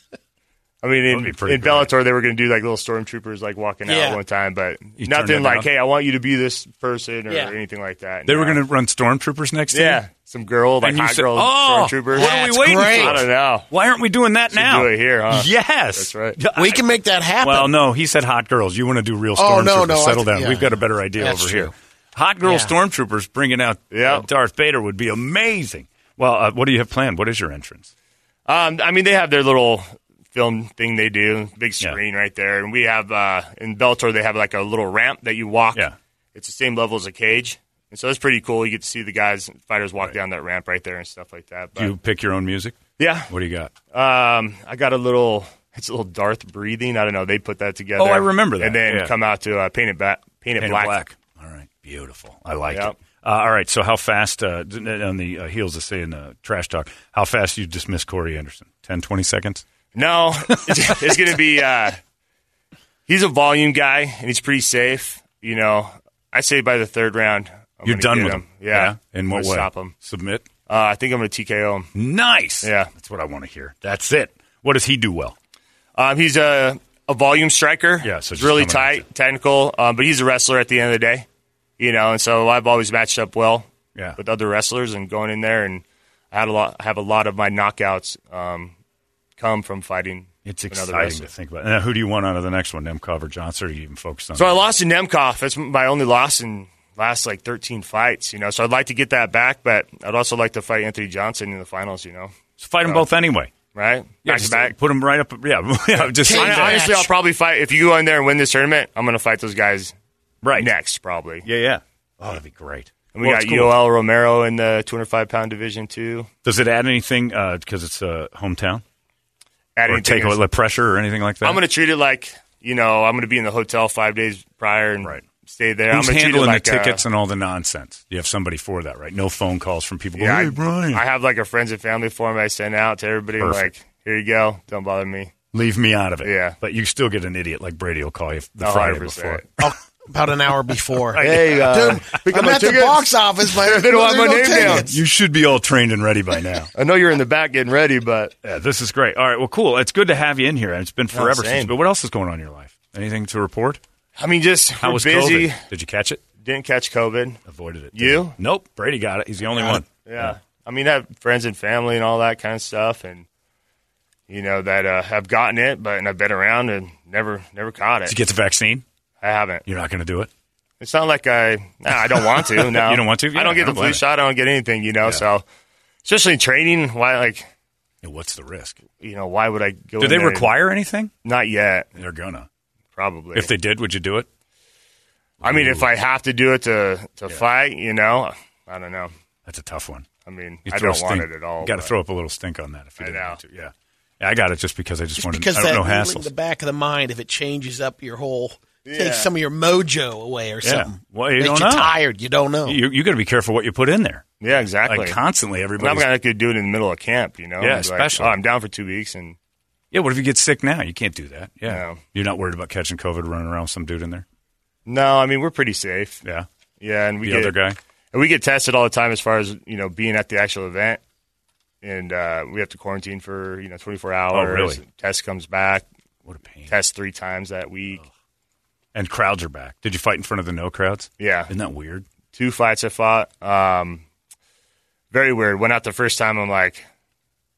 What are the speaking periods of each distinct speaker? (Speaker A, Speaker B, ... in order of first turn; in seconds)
Speaker A: 0.8-8.6, 9.7-13.7, 14.5-16.4, 23.9-24.3, 28.5-41.9, 43.0-43.3, 43.9-51.0, 52.7-53.0, 60.0-62.0, 63.1-70.0, 70.7-71.9, 72.6-72.9, 76.0-81.3, 81.8-88.7, 89.4-91.3, 94.4-102.3, 103.7-104.8, 106.0-109.9, 110.6-111.5, 113.2-116.3, 119.8-120.4, 121.4-127.0, 130.2-135.3, 136.2-136.6, 138.6-139.5, 141.2-144.9, 146.8-148.3, 151.1-151.7, 154.2-155.6, 156.4-157.4, 157.9-158.3, 159.6-163.3, 164.3-168.2, 169.2-169.7, 170.8-175.4, 176.1-177.5, 179.0-180.5, 181.2-181.9, 182.9-183.5, 185.4-189.1, 190.3-191.9, 193.0-193.4, 198.9-199.3, 204.4-205.2, 205.8-209.4, 211.7-212.0, 214.9-216.2, 216.8-217.6, 218.1-221.0, 221.8-225.8, 226.7-228.0, 231.2-231.5, 232.3-234.0, 235.1-236.9
Speaker B: 1.1-1.9, 5.0-5.7, 8.3-10.0, 10.8-16.8, 17.4-27.9, 41.8-42.8, 43.3-43.7, 48.0-49.1, 50.6-59.6, 60.5-61.0, 67.8-70.5, 72.0-75.3, 78.0-79.0, 90.5-94.6, 102.6-103.5, 104.2-106.8, 110.4-110.7, 111.4-113.8, 116.5-118.8, 119.9-121.6, 125.9-131.0, 133.4-133.7, 135.5-139.4, 141.1-141.9, 144.6-146.7, 148.4-153.8, 154.8-156.2, 157.5-160.3, 168.1-168.8, 169.7-170.3, 172.2-174.0, 178.0-178.8, 180.0-181.1, 182.0-182.5, 183.3-184.3, 185.4-185.9, 189.5-190.1, 190.7-196.3, 200.6-202.0, 202.7-204.2, 204.9-206.1, 207.6-208.4, 209.9-214.2, 217.2-217.8, 224.3-224.8, 226.3-226.7, 228.9-232.1
Speaker C: 3.9-4.2, 12.1-13.2, 16.5-17.8, 19.4-21.7, 22.4-22.7, 106.2-107.1, 139.6-145.0, 195.2-202.8